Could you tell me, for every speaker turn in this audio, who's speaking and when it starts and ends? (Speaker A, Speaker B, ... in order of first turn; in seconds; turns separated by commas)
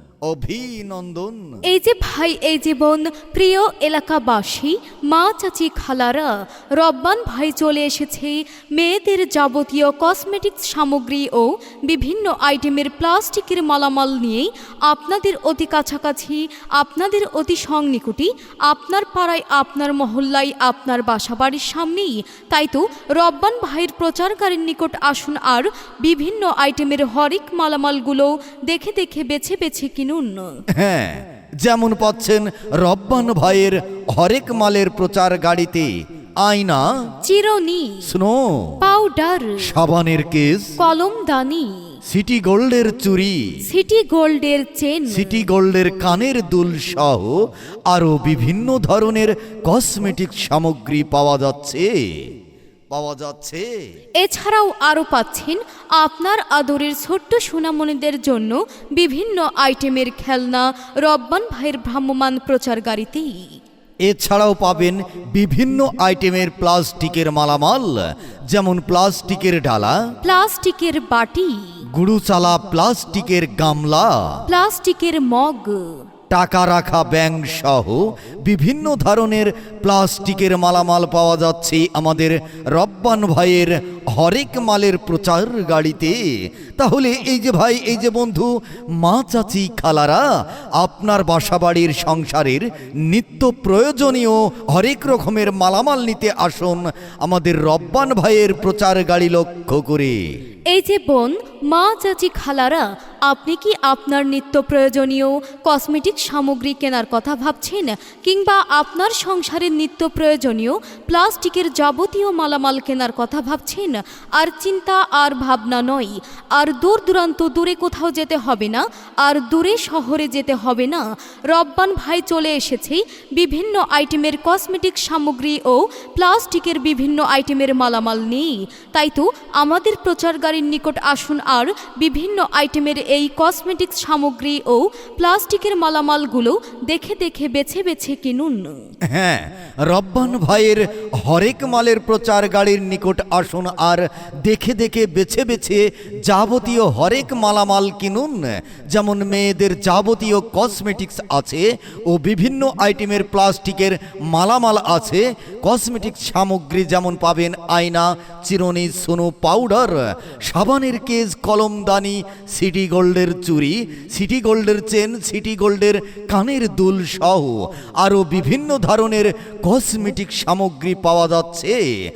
Speaker A: 0.3-1.6, Speaker B: 1.7-30.6, Speaker A: 30.8-35.9, Speaker A: 36.4-36.9, Speaker B: 37.2-38.1, Speaker A: 38.0-38.8, Speaker B: 38.8-39.8, Speaker A: 39.6-40.8, Speaker B: 40.8-42.0, Speaker A: 42.1-43.5, Speaker B: 43.6-45.5, Speaker A: 45.1-52.2, Speaker A: 52.9-53.7, Speaker B: 54.2-63.6, Speaker A: 64.0-70.0, Speaker B: 70.2-71.8, Speaker A: 71.9-74.4, Speaker B: 74.5-76.1, Speaker A: 76.3-86.2, Speaker A: 86.8-90.2, Speaker A: 90.8-100.2, Speaker B: 100.7-138.9, Speaker A: 139.1-171.8